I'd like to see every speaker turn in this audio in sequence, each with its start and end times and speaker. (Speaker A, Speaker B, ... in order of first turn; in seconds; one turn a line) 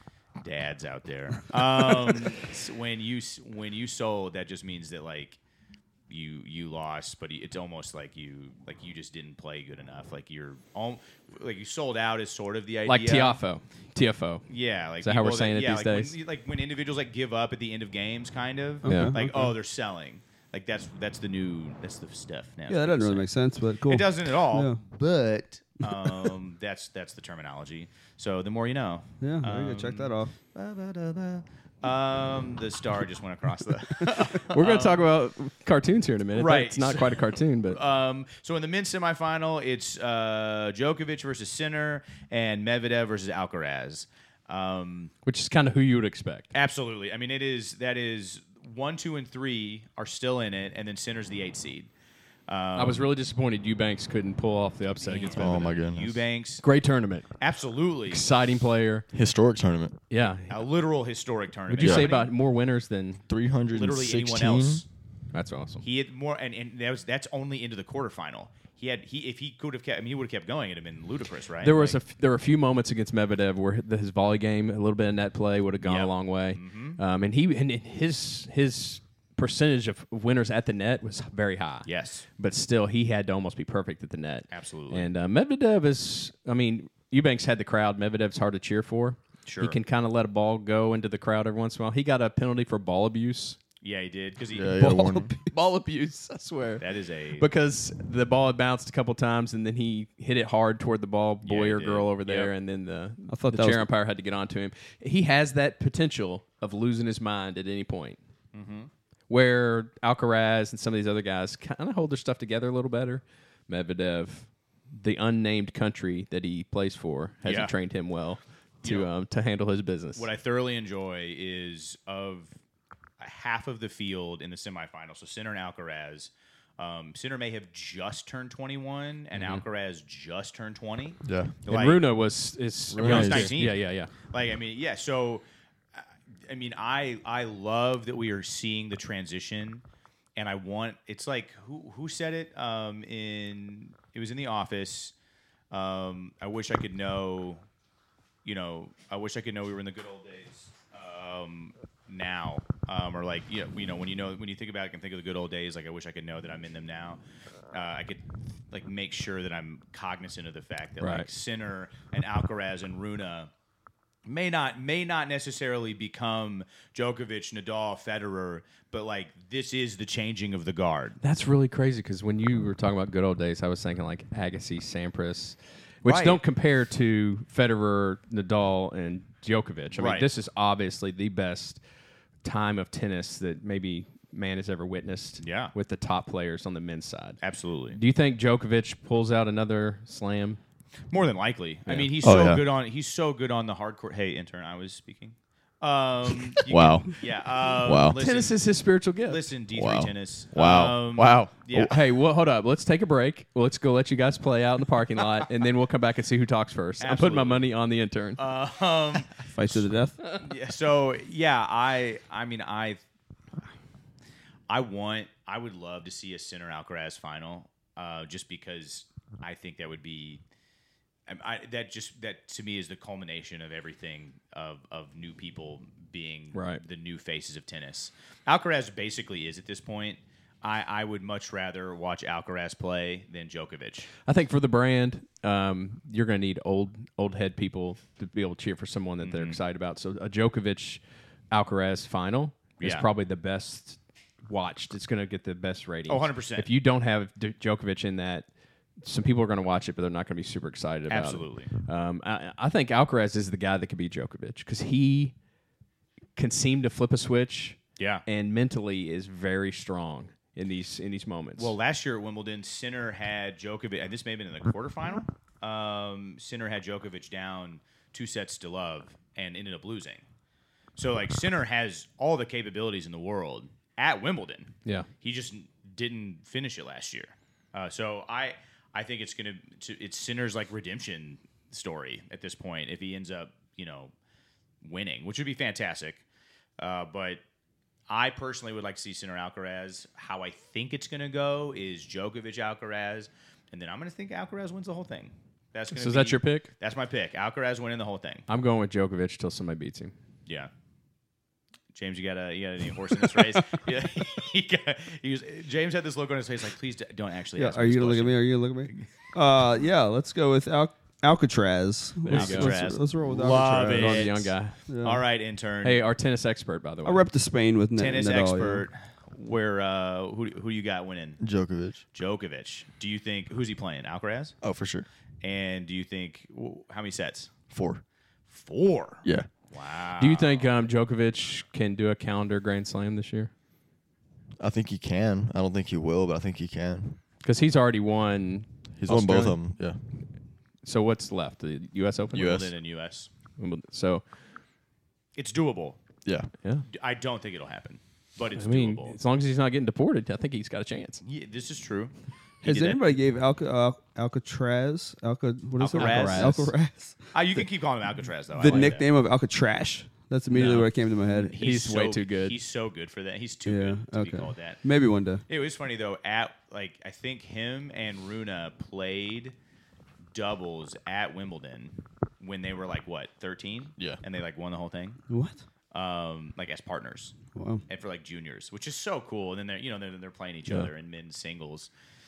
Speaker A: 0.4-5.4
Speaker A: 6.1-13.4
Speaker B: 12.8-14.4
Speaker A: 14.5-23.3
Speaker B: 15.0-16.1
Speaker C: 18.8-19.5
Speaker B: 18.9-19.1
Speaker C: 22.7-24.8
Speaker A: 23.8-35.0
Speaker C: 29.2-30.3
Speaker B: 34.5-37.8
Speaker A: 36.3-45.1
Speaker B: 45.2-46.5
Speaker A: 46.5-51.9
Speaker A: 52.5-53.1
Speaker B: 52.8-55.8
Speaker A: 55.0-56.6
Speaker D: 55.3-56.2
Speaker B: 56.6-57.3
Speaker A: 57.4-58.2
Speaker B: 58.1-59.0
Speaker D: 59.1-60.0
Speaker B: 60.1-60.6
Speaker A: 60.5-62.3
Speaker B: 61.7-63.2
Speaker D: 61.8-62.1
Speaker D: 63.3-64.8
Speaker A: 63.7-64.8
Speaker B: 65.3-65.8
Speaker A: 65.8-72.0
Speaker B: 71.6-93.6
Speaker A: 75.8-77.0
Speaker A: 81.8-82.3
Speaker A: 84.5-85.1
Speaker A: 89.5-89.8
Speaker A: 93.8-94.9
Speaker D: 94.5-95.3
Speaker C: 94.8-95.4
Speaker B: 95.5-96.8
Speaker A: 96.8-97.5
Speaker B: 97.3-108.2
Speaker A: 101.4-102.5
Speaker C: 103.3-103.9
Speaker A: 108.5-108.9
Speaker B: 109.3-120.3
Speaker A: 117.4-117.7
Speaker A: 118.8-119.1
Speaker A: 120.2-122.5
Speaker A: 123.2-132.0
Speaker B: 129.3-129.6
Speaker D: 131.2-131.5
Speaker B: 131.7-134.1
Speaker D: 132.9-133.6
Speaker A: 132.9-139.8
Speaker A: 140.3-145.1
Speaker A: 145.7-147.6
Speaker A: 148.4-157.2
Speaker A: 157.7-163.5
Speaker B: 161.0-161.3
Speaker A: 164.2-171.2
Speaker B: 171.2-181.8
Speaker A: 176.0-176.4
Speaker A: 179.9-180.3
Speaker B: 182.4-187.4
Speaker A: 185.4-185.7
Speaker A: 187.4-188.0
Speaker B: 187.9-190.6
Speaker A: 191.1-198.6
Speaker B: 191.9-192.1
Speaker D: 192.2-192.7
Speaker D: 196.7-197.2
Speaker D: 197.7-198.2
Speaker B: 198.2-199.4
Speaker A: 199.2-202.0
Speaker D: 199.7-201.9
Speaker B: 201.7-208.4
Speaker A: 207.0-207.6
Speaker A: 208.4-209.8
Speaker C: 209.4-210.2
Speaker A: 210.4-213.0
Speaker A: 214.7-220.4
Speaker A: 221.3-234.1
Speaker B: 226.5-226.8
Speaker B: 234.2-248.4
Speaker A: 239.2-239.6
Speaker A: 242.8-243.1
Speaker A: 246.1-246.7
Speaker B: 249.0-255.3
Speaker A: 251.1-251.7
Speaker B: 256.4-261.7
Speaker A: 258.0-258.2
Speaker A: 261.6-270.2
Speaker A: 270.9-284.1
Speaker A: 284.8-286.2
Speaker A: 286.8-287.4
Speaker A: 288.1-298.4
Speaker B: 295.9-296.7
Speaker B: 298.5-300.1
Speaker A: 301.9-309.1
Speaker C: 307.6-315.2
Speaker B: 312.2-312.8
Speaker A: 312.3-316.0
Speaker B: 313.9-314.8
Speaker B: 315.8-317.2
Speaker C: 317.0-318.9
Speaker A: 318.0-321.4
Speaker D: 321.4-322.0
Speaker A: 322.1-324.6
Speaker D: 324.6-325.1
Speaker A: 325.4-327.5
Speaker D: 327.7-328.0
Speaker A: 328.5-330.7
Speaker B: 330.2-333.5
Speaker D: 334.6-337.2
Speaker B: 337.4-339.6
Speaker D: 339.0-340.0
Speaker B: 340.8-342.6
Speaker D: 342.3-342.7
Speaker A: 342.4-343.3
Speaker B: 343.6-344.2
Speaker A: 345.4-346.0
Speaker D: 346.2-346.5
Speaker A: 346.9-349.1
Speaker B: 348.6-351.2
Speaker A: 351.2-353.0
Speaker C: 352.6-357.3
Speaker A: 355.8-356.7
Speaker B: 355.9-356.7
Speaker A: 357.3-359.0
Speaker C: 358.5-361.5
Speaker A: 360.5-364.8
Speaker B: 361.6-362.6
Speaker C: 363.6-365.4
Speaker A: 365.5-369.5
Speaker A: 370.3-375.2
Speaker C: 375.3-375.6
Speaker A: 375.9-377.3
Speaker C: 377.5-377.8
Speaker A: 377.9-381.9